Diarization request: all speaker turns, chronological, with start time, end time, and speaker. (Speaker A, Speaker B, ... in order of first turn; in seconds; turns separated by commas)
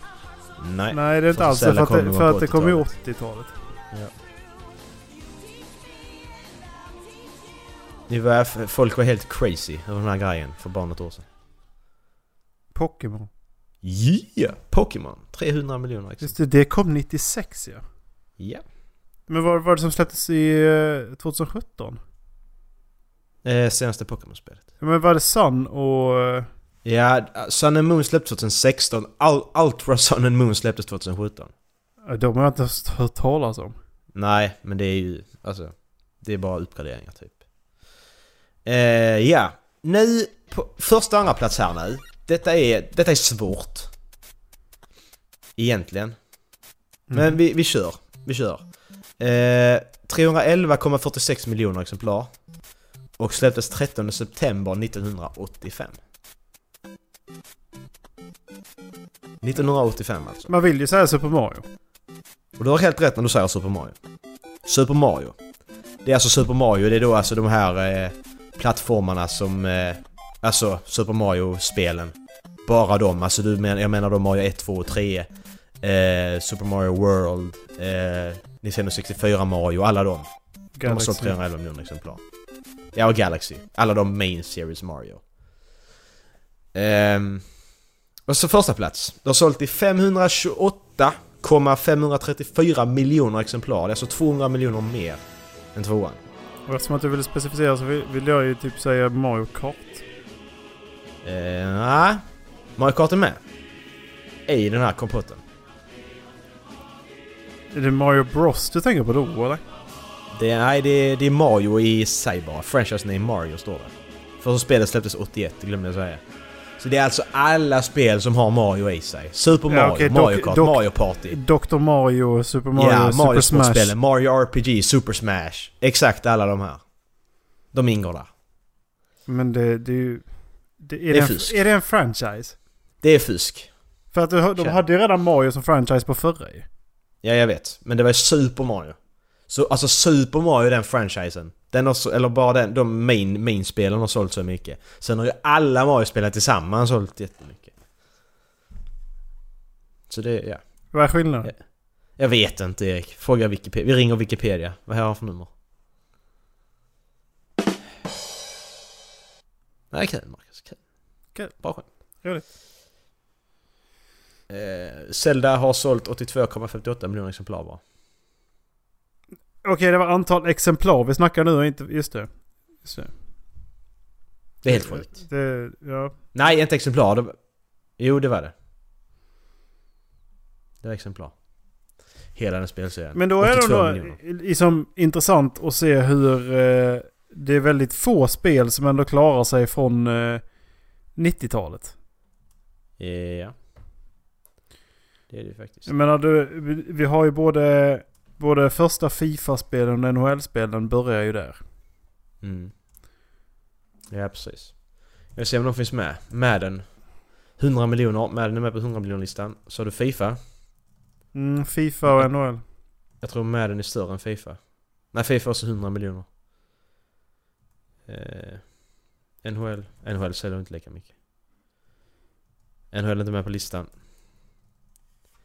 Speaker A: 0.6-2.9, Speaker B: 0.9-3.5, Speaker A: 8.1-11.2, Speaker B: 12.7-13.3, Speaker A: 13.8-16.3, Speaker B: 16.2-17.8, Speaker A: 18.4-18.6, Speaker B: 19.3-22.0, Speaker A: 23.4-24.6, Speaker B: 24.8-26.5, Speaker A: 26.8-31.5, Speaker B: 32.0-33.8, Speaker A: 34.1-37.4, Speaker A: 38.6-43.9, Speaker A: 45.5-46.1, Speaker B: 47.1-47.4, Speaker A: 47.1-48.6, Speaker A: 49.2-52.3, Speaker A: 53.2-56.0, Speaker A: 59.4-60.5, Speaker B: 60.5-61.6, Speaker A: 62.6-64.0, Speaker A: 64.6-65.3, Speaker A: 66.0-72.1, Speaker A: 72.6-75.3, Speaker A: 75.8-80.3, Speaker B: 80.8-81.3, Speaker A: 80.8-82.2, Speaker A: 82.9-85.2, Speaker A: 86.7-87.4, Speaker A: 88.3-95.2, Speaker A: 95.7-96.2, Speaker B: 96.7-100.0, Speaker A: 101.2-102.2, Speaker A: 102.8-103.4, Speaker A: 104.5-105.4, Speaker B: 107.7-109.6, Speaker A: 110.3-116.2, Speaker A: 116.8-121.4, Speaker B: 119.7-123.9, Speaker A: 122.7-126.8, Speaker A: 127.7-128.3, Speaker B: 129.3-130.2, Speaker B: 130.8-132.6, Speaker A: 131.1-131.6, Speaker A: 133.0-133.7, Speaker B: 134.1-136.7, Speaker A: 137.2-138.9, Speaker A: 139.5-147.7, Speaker A: 150.1-150.6, Speaker B: 150.9-151.5, Speaker A: 152.2-155.5, Speaker A: 159.9-160.8, Speaker A: 161.6-161.8, Speaker A: 164.5-167.8, Speaker B: 169.6-172.3, Speaker B: 172.8-173.1, Speaker A: 174.6-175.1, Speaker B: 174.7-176.1, Speaker A: 176.3-177.3, Speaker A: 178.0-178.5, Speaker A: 180.8-181.3, Speaker A: 182.3-184.2, Speaker B: 183.1-190.4, Speaker B: 191.1-191.9, Speaker A: 193.0-193.5, Speaker A: 195.3-195.9, Speaker B: 195.8-201.6, Speaker A: 202.4-202.7, Speaker A: 204.1-204.8, Speaker A: 205.3-206.8, Speaker A: 207.6-210.4, Speaker B: 211.3-212.6, Speaker A: 213.2-214.6, Speaker A: 215.1-216.2, Speaker A: 218.1-218.7, Speaker A: 219.4-221.1, Speaker A: 222.9-223.9